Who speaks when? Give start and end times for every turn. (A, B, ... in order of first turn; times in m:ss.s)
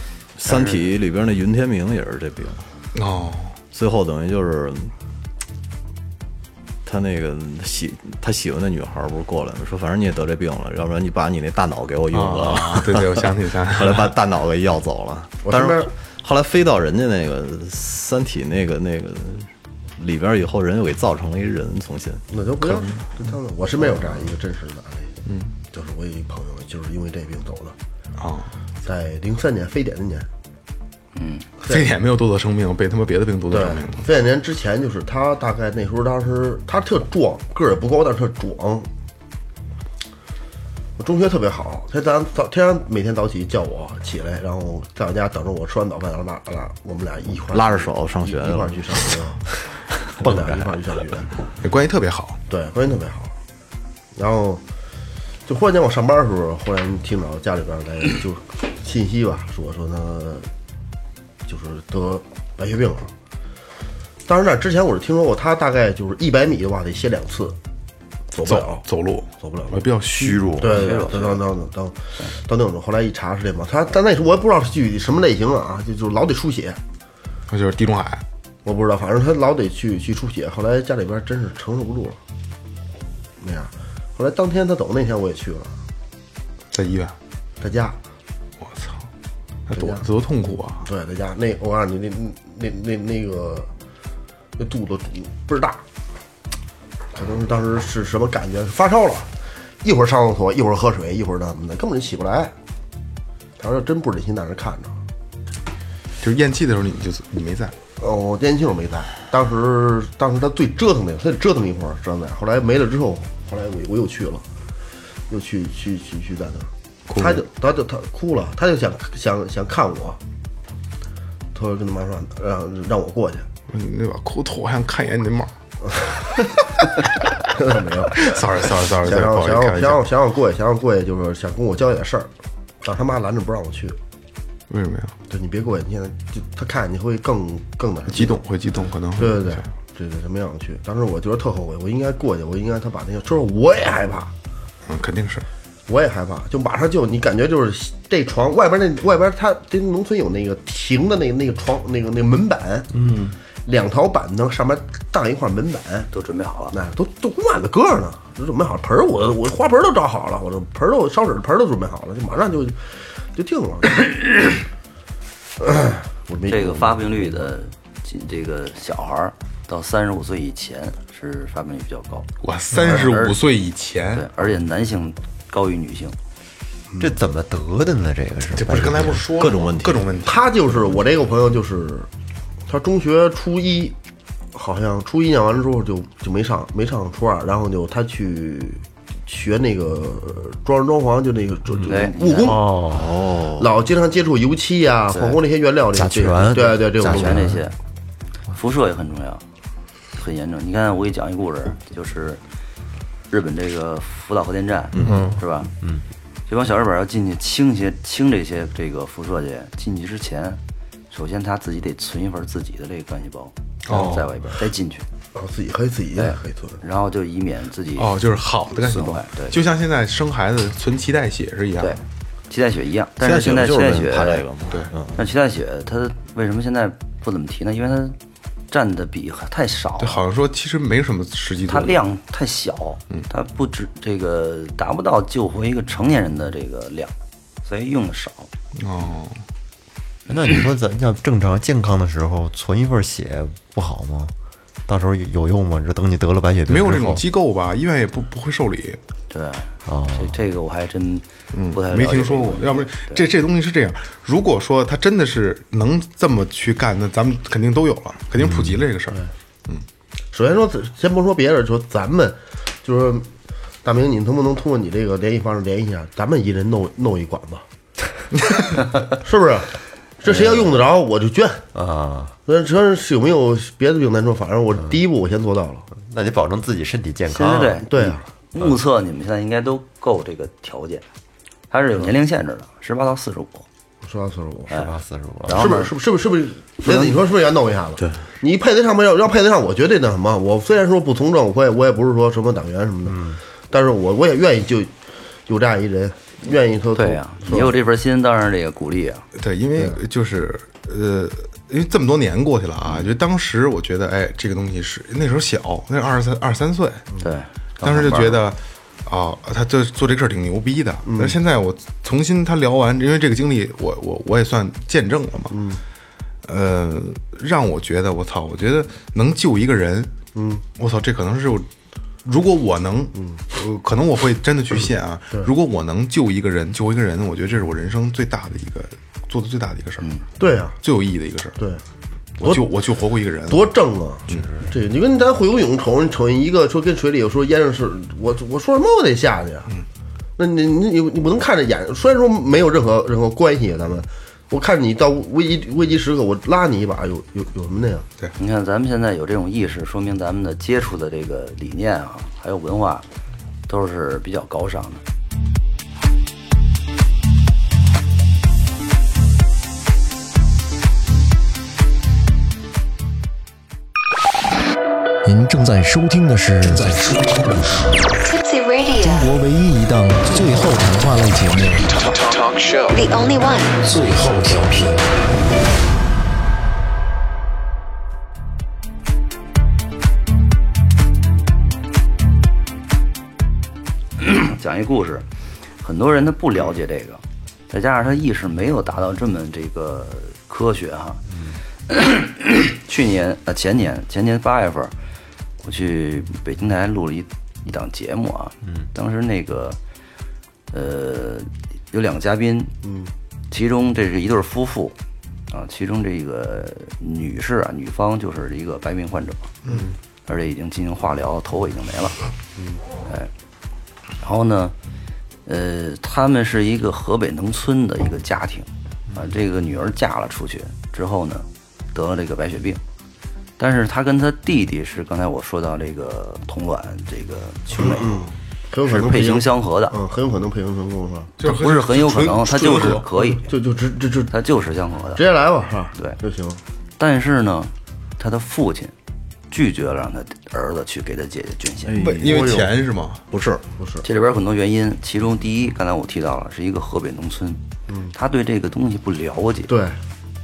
0:00.4-0:02.6 A
0:00.4-0:00.8 B
0:02.9-0:03.6 C
0:03.7-0:04.9 A
0:06.8-0:22.8 A
0:12.1-0:14.1 C
0:15.4-0:15.9 D
0:22.3-0:25.1 D
0:25.2-0:25.5 C
0:25.7-0:27.8 D
0:28.2-0:28.5 C
0:28.8-0:30.3 D
0:31.1-0:31.4 B
0:31.6-0:34.1 C
0:33.5-0:38.9 D
0:41.0-0:49.4 D
0:47.4-0:49.3 A
0:50.2-0:51.3 D
0:50.2-0:50.8 E
0:51.6-0:52.4 C
0:52.5-0:53.3 D
0:54.1-0:54.6 D
0:55.4-1:00.5 D
1:01.4-1:03.1 D
1:04.2-1:07.6 D
1:08.3-1:08.8 D
1:08.4-1:10.5 C
1:09.4-1:09.8 D
1:10.1-1:11.0 E
1:10.6-1:16.8 D
1:10.6-1:11.4 B
1:17.5-1:18.2 C
1:18.6-1:22.2 D
1:23.4-1:25.8 D
1:26.7-1:27.1 C
1:27.6-1:28.0 D
1:28.6-1:29.0 C
1:29.7-1:30.8 C
1:29.7-1:30.0 D
1:30.8-1:33.7 D
1:34.6-1:35.8 D
1:37.1-1:42.5 D
1:43.6-1:45.0 D
1:46.2-1:47.7 C
1:48.0-1:54.4 D
1:55.3-2:00.2 D
1:57.1-1:57.4 C
2:01.5-2:03.5 D
2:03.7-2:05.5 C
2:05.9-2:06.2 D
2:07.4-2:08.4 D
2:08.2-2:10.0 C
2:09.0-2:12.3 D
2:12.8-2:14.0 D
2:14.7-2:15.1 C
2:15.3-2:18.4 D
2:18.1-2:19.6 C
2:19.2-2:24.3 D
2:24.9-2:25.4 C
2:25.9-2:36.1 D
2:33.0-2:33.3 E
2:36.1-2:36.8 B
2:36.7-2:44.1 D
2:45.6-2:47.4 D
2:46.5-2:53.4 B
2:52.4-2:54.2 C
2:54.1-2:56.2 B
2:56.9-2:57.2 D
2:57.0-2:59.2 E
2:58.6-3:00.5 C
2:59.3-3:00.2 A
3:00.2-3:02.1 D
3:02.7-3:04.0 D
3:04.5-3:12.7 D
3:11.9-3:12.6 B
3:12.4-3:13.1 E
3:12.9-3:13.7 A
3:13.4-3:17.5 D
3:15.9-3:17.6 E
3:17.0-3:17.8 B
3:18.5-3:19.4 B
3:20.2-3:22.4 B
3:23.3-3:25.7 B
3:25.0-3:26.0 E
3:26.5-3:30.6 B
3:31.1-3:35.0 B
3:33.8-3:34.2 C
3:35.3-3:36.8 D
3:36.2-3:38.2 B
3:38.0-3:42.0 C
3:38.7-3:39.6 B
3:41.8-3:44.4 B
3:43.2-3:45.2 A
3:45.1-3:48.2 B
3:48.7-3:50.2 B
3:50.0-3:52.0 C
3:51.7-3:57.1 B
3:57.6-3:58.5 B
3:58.8-3:59.4 C
4:00.3-4:04.3 E
4:04.9-4:07.2 E
4:06.7-4:09.0 C
4:09.3-4:13.2 B
4:09.8-4:10.4 E
4:11.5-4:19.8 C
4:18.4-4:18.8 E
4:20.3-4:23.3 D
4:23.8-4:27.6 D
4:29.1-4:31.7 D
4:30.2-4:30.7 B
4:31.7-4:32.4 E
4:32.4-4:35.9 D
4:35.9-4:38.8 E
4:37.3-4:37.9 B
4:37.8-4:38.2 D
4:38.5-4:41.0 B
4:41.7-4:43.6 B
4:44.0-4:44.7 D
4:44.7-4:45.7 E
4:45.4-4:45.9 B
4:45.5-4:54.9 D
4:46.8-4:47.1 B
4:48.0-4:48.2 A
4:53.1-4:53.4 E
4:55.5-4:57.8 D
4:57.0-4:59.2 B
4:59.3-5:07.0 C
5:02.8-5:03.1 B
5:07.2-5:08.4 B
5:07.8-5:15.6 C
5:11.0-5:11.4 D
5:15.5-5:15.8 D
5:16.4-5:20.1 C
5:20.3-5:20.6 D
5:20.8-5:21.7 C
5:22.2-5:30.1 C
5:30.4-5:30.8 D
5:30.8-5:31.6 C
5:32.4-5:33.7 C
5:33.5-5:39.7 D
5:40.4-5:48.0 D
5:48.4-5:53.0 B
5:53.7-5:55.0 B
6:05.2-6:08.0 F
6:08.2-6:09.3 G
6:09.0-6:11.9 F
6:12.4-6:13.8 G
6:13.8-6:15.1 F
6:24.2-6:25.2 B
6:25.8-6:31.2 B
6:31.3-6:31.6 E
6:31.9-6:34.9 B
6:35.6-6:39.8 B
6:38.6-6:38.9 E
6:40.7-6:42.7 B
6:42.8-6:43.1 D
6:43.5-6:44.9 B
6:45.5-6:49.5 B
6:49.7-6:50.0 D
6:50.3-6:52.2 B
6:52.6-6:52.8 D
6:54.2-6:54.7 B
6:55.4-7:02.8 B
7:03.6-7:08.2 B
7:07.8-7:11.3 D
7:08.8-7:10.0 B
7:11.4-7:13.0 C
7:11.4-7:13.5 B
7:13.2-7:14.3 D
7:14.3-7:15.2 B
7:15.1-7:16.6 D
7:17.0-7:18.9 B
7:19.5-7:22.0 B
7:21.8-7:22.7 A
7:22.0-7:23.2 C
7:22.1-7:22.7 D
7:23.3-7:23.6 A
7:23.8-7:24.0 D
7:24.0-7:27.6 B
7:28.1-7:29.7 B
7:29.7-7:30.0 D